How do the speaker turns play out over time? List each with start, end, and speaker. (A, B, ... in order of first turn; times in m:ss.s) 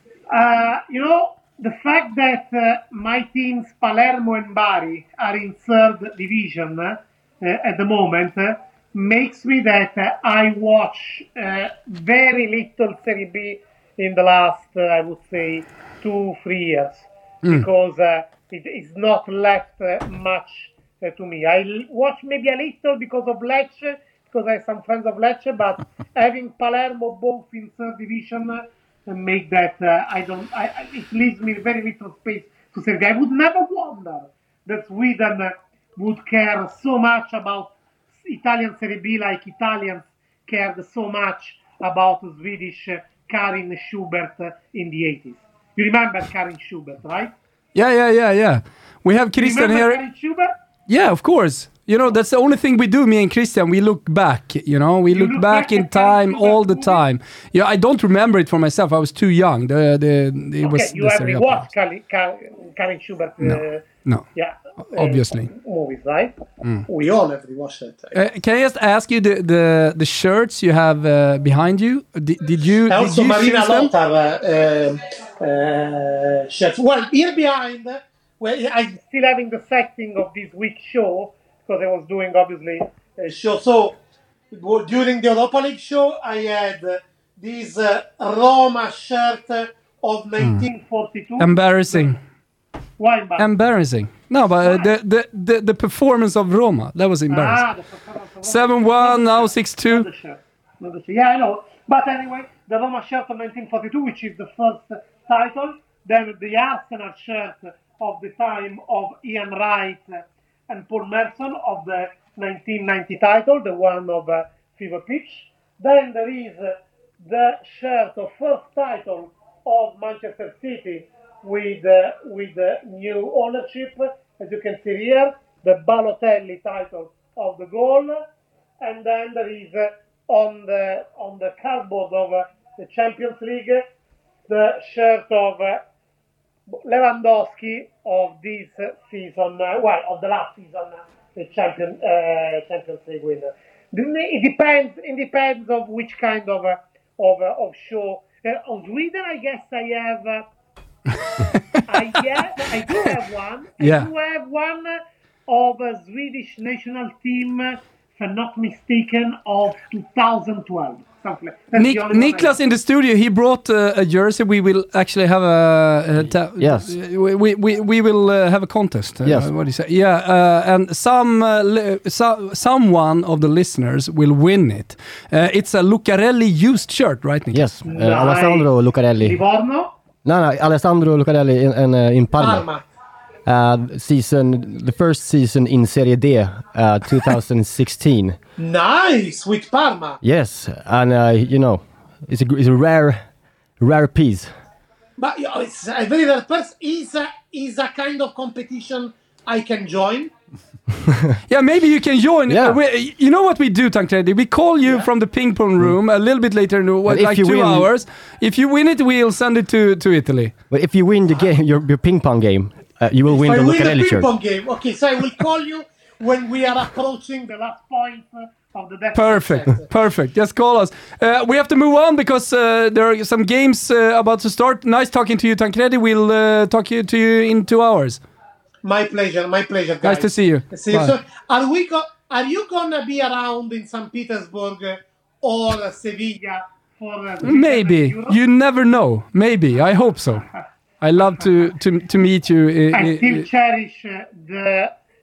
0:00.3-0:37.7 A
0:38.2-0:47.3 A
0:47.8-0:50.0 B
0:49.4-0:50.5 A
0:50.9-1:01.7 B
0:55.1-0:57.0 A
1:00.6-1:03.8 A
1:03.4-1:04.2 B
1:04.4-1:06.4 A
1:04.9-1:05.5 B
1:06.9-1:08.1 A
1:08.1-1:13.9 B
1:12.9-1:24.0 A
1:24.5-1:32.0 A
1:31.4-1:32.2 B
1:33.0-1:33.5 A
1:33.4-1:37.6 B
1:37.3-2:08.2 A
1:38.5-1:40.1 B
2:08.8-2:13.8 A
2:14.5-2:15.8 A
2:16.7-2:30.4 A
2:31.2-2:31.8 B
2:31.9-2:42.6 A
2:33.8-2:34.1 B
2:41.8-2:57.6 B
2:46.6-2:46.9 C
2:49.2-2:49.5 C
2:57.5-2:59.4 C
2:57.8-2:58.7 A
2:59.2-2:59.9 A
3:00.2-3:02.7 C
3:02.4-3:02.8 A
3:03.5-3:08.4 C
3:08.6-3:10.2 A
3:10.2-3:13.2 C
3:13.8-3:14.5 C
3:15.2-3:20.3 A
3:21.5-3:30.5 B
3:22.5-3:22.8 C
3:27.1-3:27.9 C
3:30.7-3:34.3 C
3:33.4-3:39.9 A
3:39.1-3:48.2 B
3:48.8-3:58.4 A
3:50.0-3:51.1 B
3:57.4-4:00.4 B
4:01.0-4:03.4 B
4:02.9-4:04.9 A